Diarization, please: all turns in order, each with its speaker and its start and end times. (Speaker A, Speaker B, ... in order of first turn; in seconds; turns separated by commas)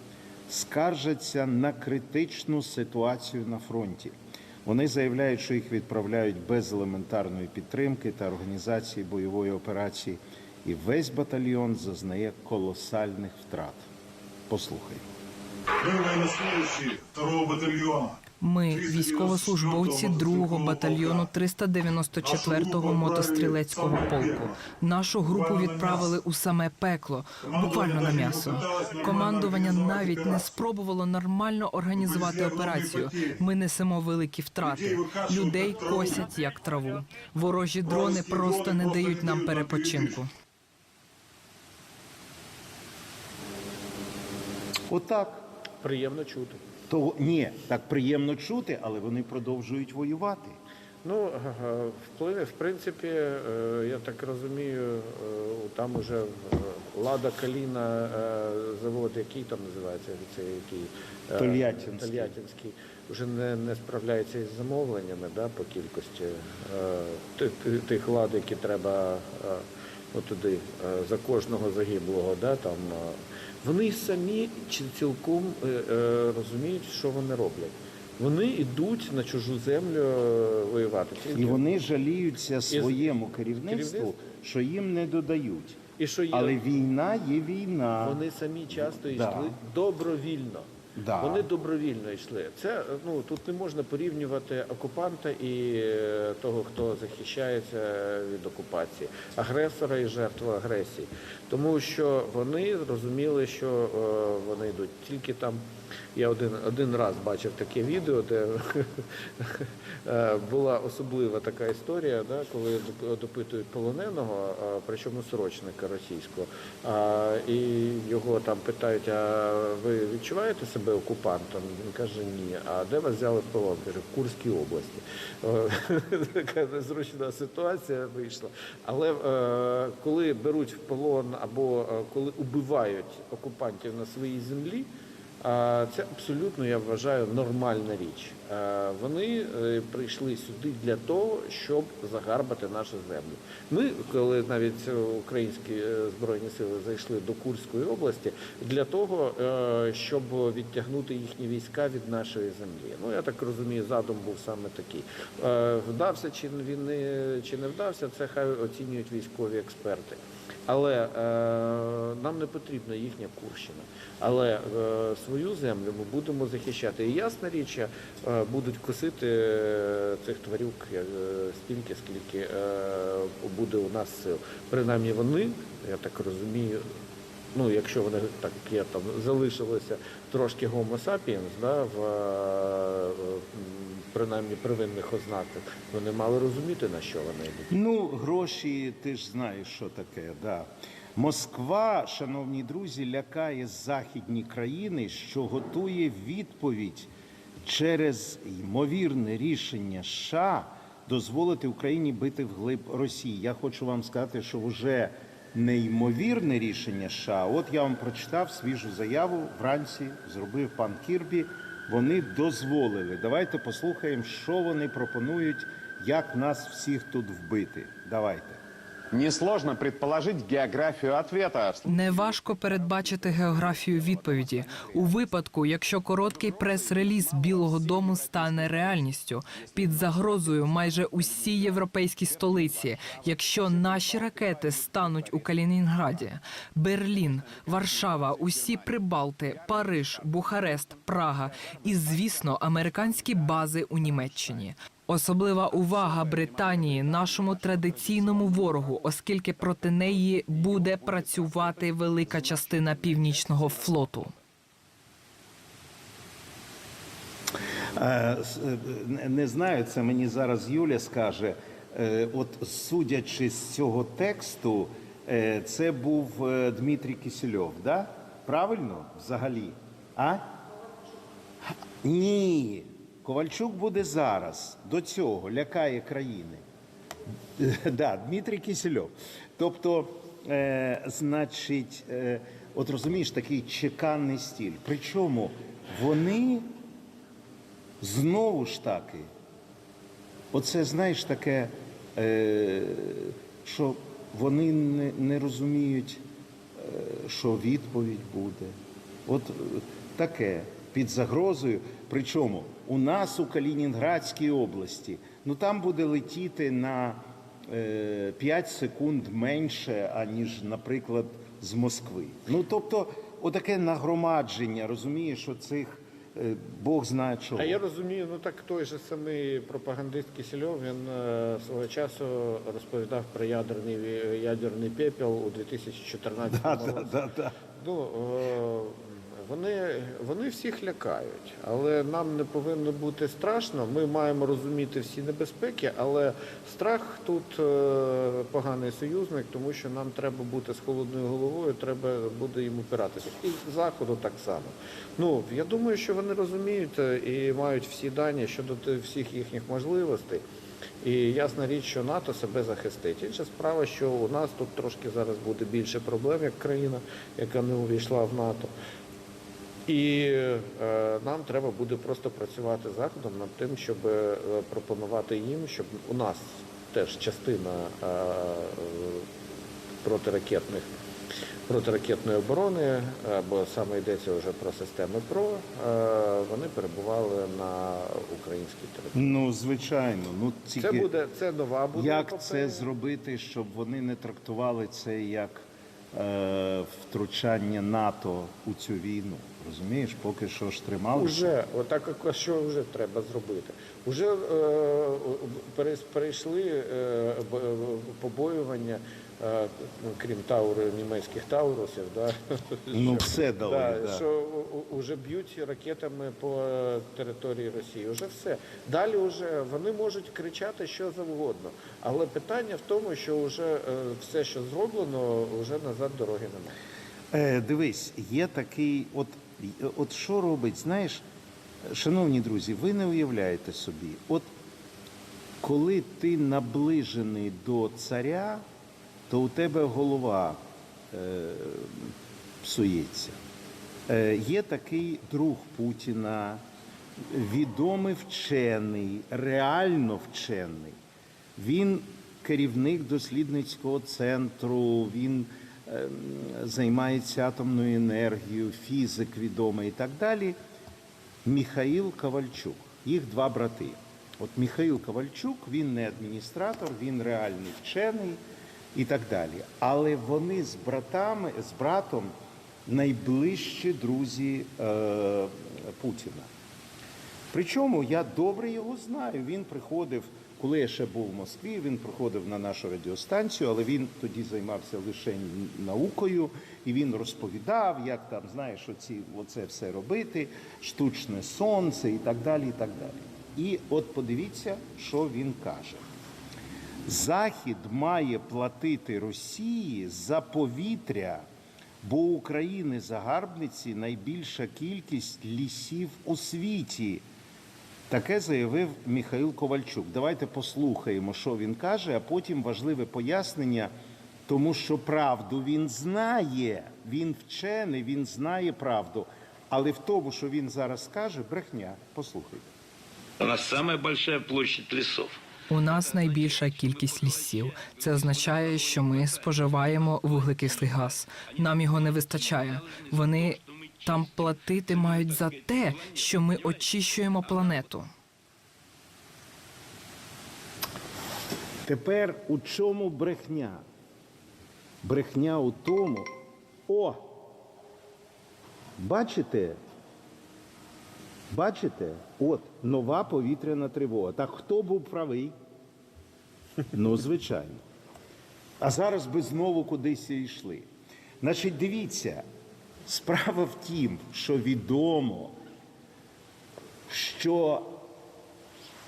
Speaker A: 0.5-4.1, Speaker A: 4.7-13.8, Speaker A: 14.5-15.0, Speaker B: 15.8-21.3, Speaker C: 18.4-40.3, Speaker B: 22.2-24.6, Speaker B: 25.3-26.2, Speaker B: 27.4-30.6, Speaker B: 31.9-33.4, Speaker B: 34.6-36.3, Speaker B: 37.8-40.2, Speaker A: 44.9-45.4, Speaker D: 45.8-46.6, Speaker A: 46.9-50.6, Speaker D: 51.0-81.6, Speaker A: 61.4-62.3, Speaker A: 81.3-85.8, Speaker D: 82.7-84.1, Speaker D: 86.0-86.6, Speaker A: 86.3-88.2, Speaker D: 88.0-105.6, Speaker A: 88.7-89.5, Speaker A: 91.0-91.5, Speaker D: 106.2-134.9, Speaker D: 135.4-176.9, Speaker D: 177.5-187.7, Speaker A: 187.7-197.1, Speaker A: 197.6-218.6, Speaker E: 219.1-221.8, Speaker C: 221.9-254.3, Speaker A: 258.0-270.5, Speaker A: 272.0-276.6, Speaker A: 277.6-286.7, Speaker A: 288.0-289.3, Speaker A: 290.5-296.2, Speaker A: 296.8-298.8, Speaker A: 299.3-317.8, Speaker D: 317.6-327.1, Speaker A: 326.5-327.5, Speaker D: 327.8-350.4, Speaker D: 351.0-358.7, Speaker D: 359.9-369.3, Speaker D: 370.0-370.9, Speaker D: 371.7-379.3, Speaker A: 379.1-381.1, Speaker D: 380.8-382.9, Speaker A: 381.9-391.5, Speaker D: 391.1-416.8, Speaker A: 402.9-404.2, Speaker A: 417.3-421.2, Speaker A: 421.9-424.5, Speaker A: 425.6-428.6, Speaker A: 429.3-430.6, Speaker A: 431.1-433.4, Speaker A: 434.1-436.6, Speaker A: 437.2-441.0, Speaker A: 441.6-450.6, Speaker A: 451.4-458.4, Speaker A: 458.9-462.3, Speaker A: 462.9-466.5, Speaker A: 467.5-486.0, Speaker A: 487.1-491.4, Speaker A: 492.0-497.2, Speaker A: 498.1-503.9, Speaker A: 504.5-512.7, Speaker F: 513.4-515.4, Speaker C: 515.7-528.1, Speaker A: 531.9-533.8, Speaker A: 535.0-536.3, Speaker A: 536.9-537.4, Speaker A: 539.0-539.8, Speaker A: 541.5-545.5, Speaker A: 546.9-547.8, Speaker A: 548.8-550.9, Speaker A: 551.4-552.5, Speaker A: 553.1-555.6, Speaker A: 557.1-558.0